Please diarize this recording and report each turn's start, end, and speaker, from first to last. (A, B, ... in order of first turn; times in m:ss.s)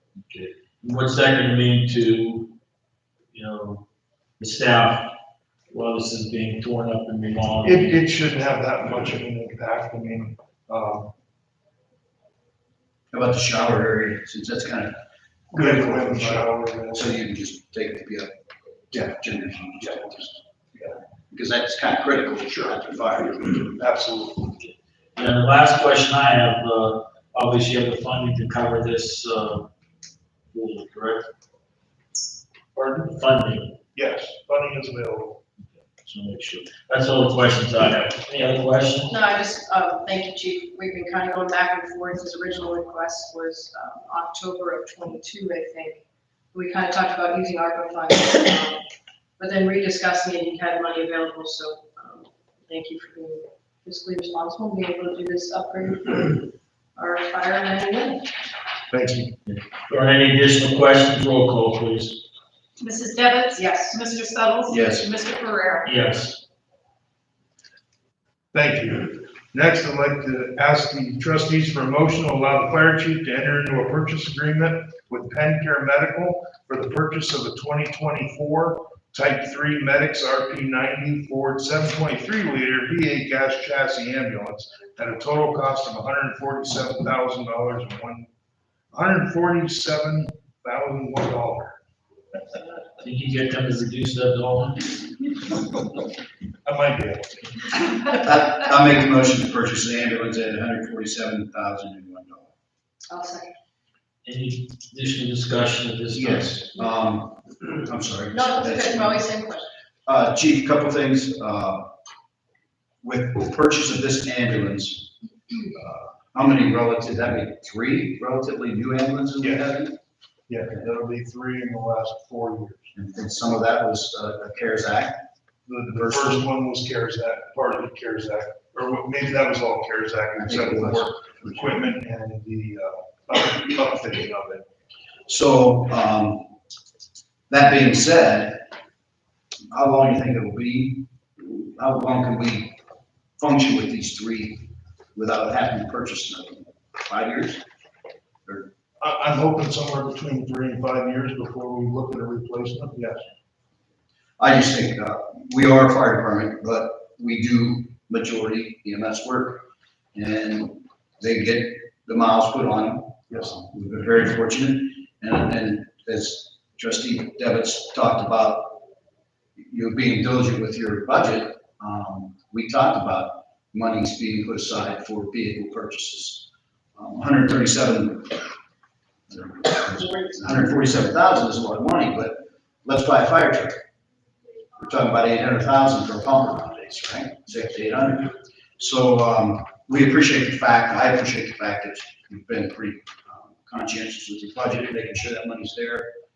0:00.2-0:02.5 A
0:03.3-0:03.8 A
0:04.4-0:05.1 A
0:05.7-0:08.0 A
0:07.6-0:11.1 B
0:13.1-0:15.0 C
0:15.5-0:17.1 B
0:15.5-0:18.3 C
0:18.9-0:20.3 C
0:18.9-0:19.2 B
0:19.8-0:20.3 B
0:21.3-0:23.7 C
0:23.8-0:24.5 B
0:25.2-0:29.7 A
0:30.5-0:31.3 A
0:32.7-0:33.7 A
0:33.9-0:35.4 B
0:36.0-0:39.2 A
0:39.1-0:48.8 D
0:49.4-0:58.3 D
0:58.9-0:59.3 B
0:59.5-1:02.2 A
1:02.8-1:05.9 E
1:03.6-1:04.0 D
1:04.7-1:05.1 C
1:05.8-1:06.4 A
1:08.5-1:28.3 B
1:28.9-1:31.8 B
1:33.0-1:34.9 A
1:36.6-1:37.2 B
1:38.0-1:42.5 C
1:43.1-1:43.5 D
1:44.2-1:46.6 A
1:46.1-1:49.3 C
1:48.3-1:49.7 D
1:50.0-1:51.9 C
1:53.0-1:55.1 C
1:55.7-2:00.0 C
1:59.4-1:59.7 B
2:00.5-2:02.9 B
2:03.0-2:05.2 C
2:05.7-2:14.6 B
2:05.9-2:06.3 C
2:10.4-2:11.7 C
2:15.3-2:16.5 C
2:17.5-2:18.6 C
2:19.7-2:22.8 C
2:23.4-2:27.6 C
2:29.0-2:33.3 B
2:34.4-2:39.6 C
2:40.1-2:48.8 C
2:43.3-2:43.6 B
2:49.6-2:58.4 C
2:59.3-3:03.8 C
3:04.8-3:16.1 C